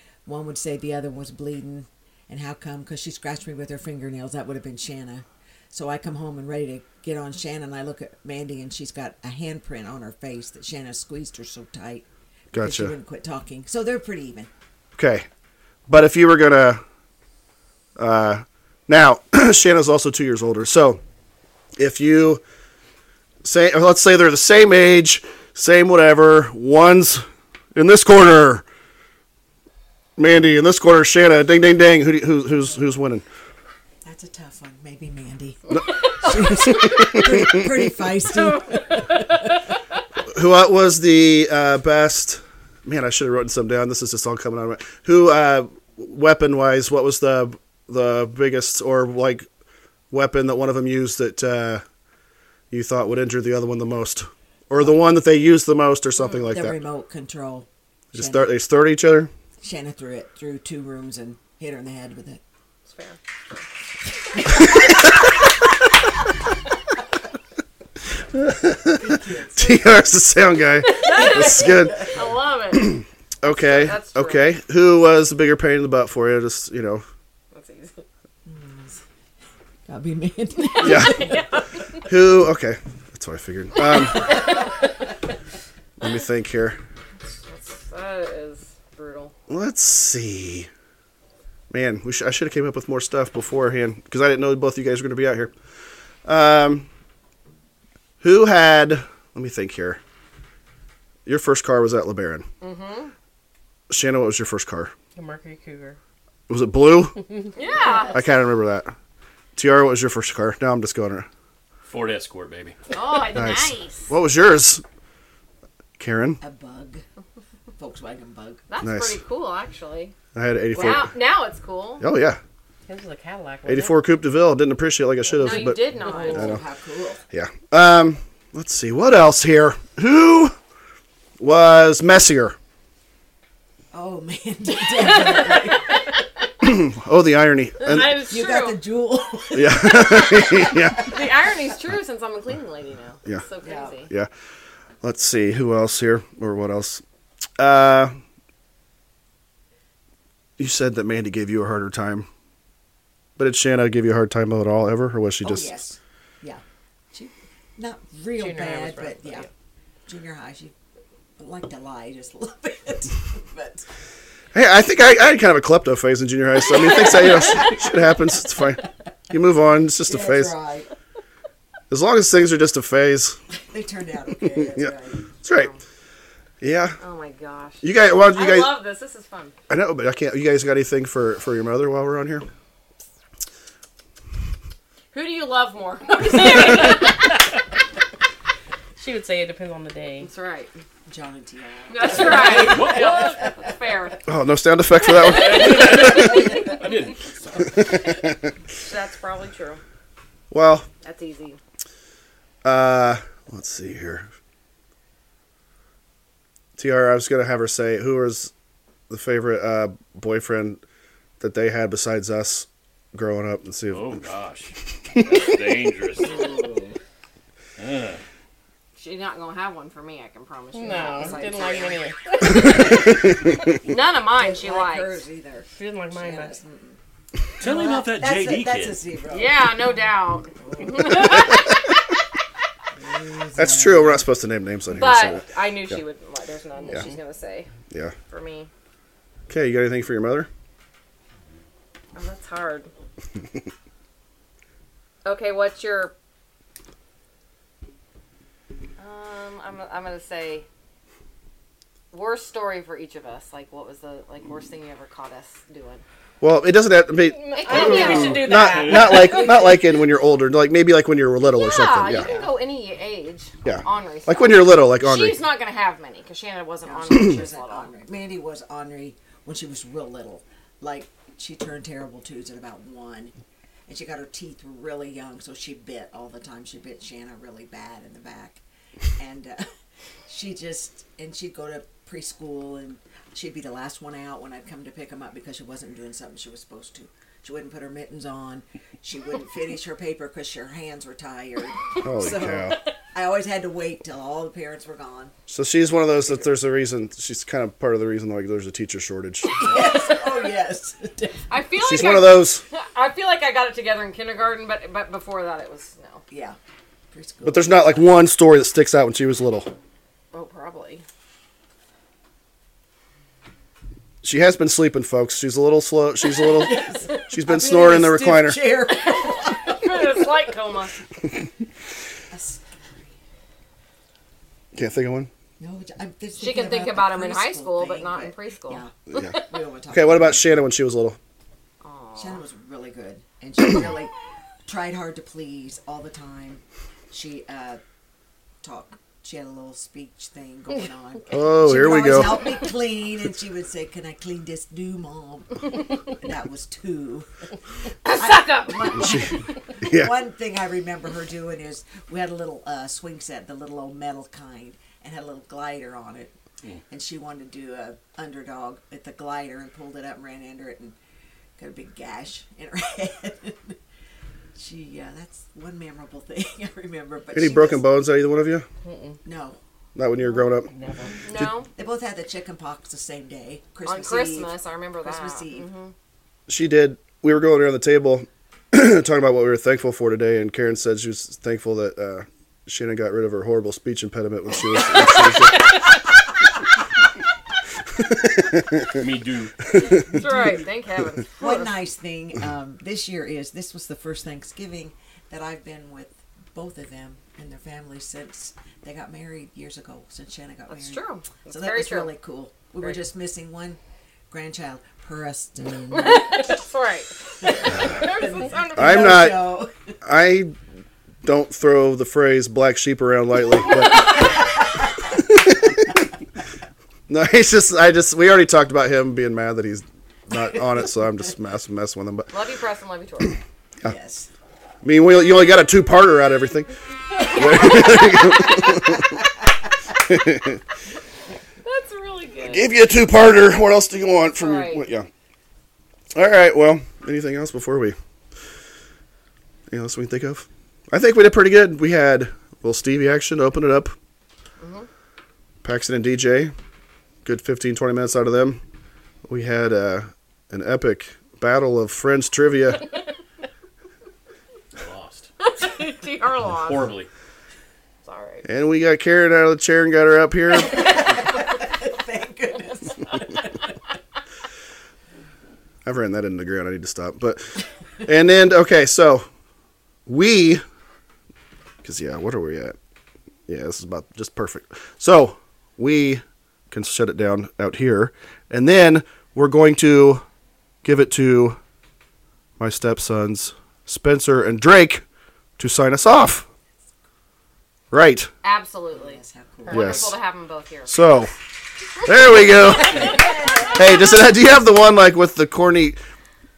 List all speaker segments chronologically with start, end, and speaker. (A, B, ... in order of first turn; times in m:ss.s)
0:00.2-0:14.5 A
0:12.5-0:12.9 B
0:14.9-0:15.2 B
0:15.9-0:16.8 B
0:18.0-0:21.0 B
0:21.8-0:22.4 B
0:23.4-0:28.6 B
0:30.2-0:33.2 B
0:34.0-0:39.3 A
0:36.6-0:37.6 B
0:40.3-0:49.4 B
0:50.1-0:51.8 B
0:52.7-0:56.8 B
0:56.2-0:58.5 A
0:58.1-0:59.3 B
0:59.6-1:02.4 A
1:02.9-1:03.2 C
1:08.3-1:12.0 B
1:09.0-1:09.9 A
1:10.9-1:14.5 C
1:11.2-1:12.0 A
1:12.7-1:17.0 B
1:17.5-1:18.0 C
1:18.4-1:19.0 A
1:19.9-1:21.4 A
1:20.8-1:21.3 B
1:20.8-1:21.6 C
1:22.0-1:24.4 B
1:26.0-1:26.8 B
1:27.4-1:29.3 C
1:29.5-1:30.7 B
1:31.7-1:35.5 B
1:36.2-1:36.9 B
1:38.2-1:40.0 B
1:41.2-1:42.4 B
1:42.6-1:43.1 C
1:43.9-1:44.9 B
1:45.1-1:46.0 D
1:46.5-1:47.2 B
1:47.5-1:48.3 C
1:48.1-1:48.9 B
1:49.5-1:51.3 B
1:51.8-1:52.8 E
1:52.9-1:54.1 C
1:53.3-1:54.8 B
1:56.0-1:56.4 B
1:56.4-1:57.0 A
1:57.8-1:58.7 A
1:58.7-2:00.1 C
1:58.8-1:59.2 B
2:00.3-2:01.1 B
2:00.7-2:02.0 C
2:02.0-2:02.4 B
2:02.8-2:04.0 D
2:03.6-2:06.6 B
2:05.3-2:06.5 C
2:05.4-2:07.2 A
2:06.0-2:06.5 D
2:07.3-2:10.5 B
2:11.4-2:12.6 B
2:13.9-2:16.0 A
2:16.6-2:18.2 B
2:17.8-2:18.8 C
2:17.9-2:18.2 D
2:18.3-2:21.1 A
2:19.5-2:21.1 B
2:20.2-2:24.1 C
2:23.6-2:24.0 A
2:25.0-2:27.0 B
2:27.6-2:28.1 B
2:30.6-2:32.3 B
2:33.4-2:35.7 B
2:35.4-2:39.4 A
2:38.3-2:39.5 D
2:40.0-2:40.7 A
2:41.4-2:43.8 A
2:44.5-2:50.6 B
2:46.9-2:47.3 A
2:50.0-2:50.9 A
2:51.9-2:53.4 B
2:53.7-2:55.3 A
2:54.5-2:54.9 B
2:55.4-2:55.7 B
2:55.5-2:55.8 C
2:56.6-2:57.0 B
2:57.0-2:59.6 C
2:57.8-2:58.7 B
2:59.7-3:02.4 B
3:05.1-3:07.3 C
3:06.3-3:07.1 D
3:09.0-3:10.3 D
3:10.2-3:10.7 C
3:11.1-3:14.1 A
3:11.9-3:14.2 C
3:12.2-3:13.4 D
3:12.7-3:13.1 E
3:14.3-3:16.4 B
3:15.1-3:17.7 E
3:17.8-3:18.3 B
3:18.8-3:19.8 C
3:20.5-3:20.8 B
3:21.0-3:21.6 C
3:22.6-3:24.3 B
3:26.8-3:28.5 B
3:29.1-3:30.8 B
3:31.4-3:34.2 B
3:33.9-3:36.9 E
3:37.8-3:38.2 E
3:39.0-3:43.1 C
3:40.7-3:42.2 D
3:41.2-3:41.5 A
3:42.9-3:43.4 B
3:43.7-3:45.2 C
3:44.2-3:47.0 A
3:45.7-3:46.6 D
3:47.6-3:49.0 E
3:47.6-3:49.7 A
3:49.3-3:51.6 C
3:53.0-3:54.3 A
3:53.5-3:56.0 B
3:54.9-3:57.7 C
3:58.3-3:58.7 C
3:59.5-4:00.5 B
4:02.1-4:02.9 C
4:05.2-4:06.1 C
4:09.0-4:10.7 C
4:12.1-4:16.0 C
4:16.4-4:22.3 B
4:17.4-4:19.5 C
4:17.5-4:19.4 D
4:19.1-4:19.8 A
4:21.4-4:27.9 C
4:23.6-4:25.4 B
4:26.8-4:33.3 A
4:33.9-4:38.6 A
4:39.2-4:39.7 A
4:40.3-4:55.3 A
4:52.0-4:52.8 B
4:55.5-4:59.5 B
4:59.6-5:01.4 A
5:01.5-5:06.2 C
5:01.8-5:02.6 B
5:06.3-5:06.6 A
5:07.1-5:08.0 A
5:07.4-5:09.7 B
5:10.3-5:11.0 C
5:14.2-5:18.6 B
5:16.3-5:20.2 A
5:19.7-5:21.0 C
5:22.3-5:23.1 A
5:24.7-5:25.3 B
5:25.6-5:30.5 A
5:26.4-5:28.8 C
5:29.1-5:29.4 B
5:29.9-5:31.2 B
5:31.8-5:32.4 C
5:32.2-5:34.1 A
5:34.6-5:37.8 A
5:38.6-5:47.3 A
5:41.3-5:42.5 B
5:48.0-5:49.4 C
5:48.1-5:56.3 A
5:49.8-5:50.1 B
5:56.9-6:01.0 A
6:01.6-6:03.8 A
6:04.5-6:07.9 A
6:07.3-6:08.6 B
6:08.8-6:09.2 D
6:09.2-6:09.6 A
6:09.9-6:10.7 B
6:10.5-6:11.2 D
6:11.3-6:11.7 C
6:11.4-6:15.7 A
6:13.8-6:15.9 C
6:16.5-6:25.7 B
6:28.4-6:28.9 B
6:28.8-6:29.8 E
6:29.8-6:31.8 C
6:30.3-6:30.6 A
6:31.4-6:43.8 A
6:40.7-6:42.1 C
6:44.3-6:46.5 A
6:45.9-6:49.2 C
6:47.4-6:49.7 A
6:48.8-6:50.5 B
6:51.2-6:54.4 B
6:55.2-6:55.8 B
6:57.1-7:02.3 B
7:02.3-7:03.4 C
7:03.8-7:04.3 A
7:04.8-7:06.7 B
7:07.3-7:09.0 B
7:07.3-7:08.0 A
7:07.5-7:08.0 C
7:10.0-7:10.6 B
7:11.6-7:12.7 C
7:12.5-7:15.1 B
7:14.4-7:14.9 C
7:16.1-7:18.0 B
7:19.7-7:23.9 B
7:24.6-7:24.9 C
7:25.6-7:26.5 B
7:27.2-7:28.6 B
7:29.2-7:32.9 B
7:34.7-7:35.3 E
7:35.4-7:37.0 C
7:36.5-7:37.1 E
7:38.0-7:38.4 C
7:38.4-7:40.8 B
7:40.5-7:43.5 A
7:45.8-7:49.2 B
7:50.1-7:50.6 B
7:51.8-7:52.7 B
7:53.5-8:00.2 B
8:00.8-8:01.6 B
8:02.6-8:05.0 B
8:05.6-8:06.4 B
8:07.9-8:08.3 B
8:08.4-8:11.0 C
8:08.9-8:10.1 A
8:09.7-8:10.1 B
8:10.9-8:11.3 B
8:12.0-8:13.2 B
8:12.9-8:13.5 A
8:13.7-8:16.0 B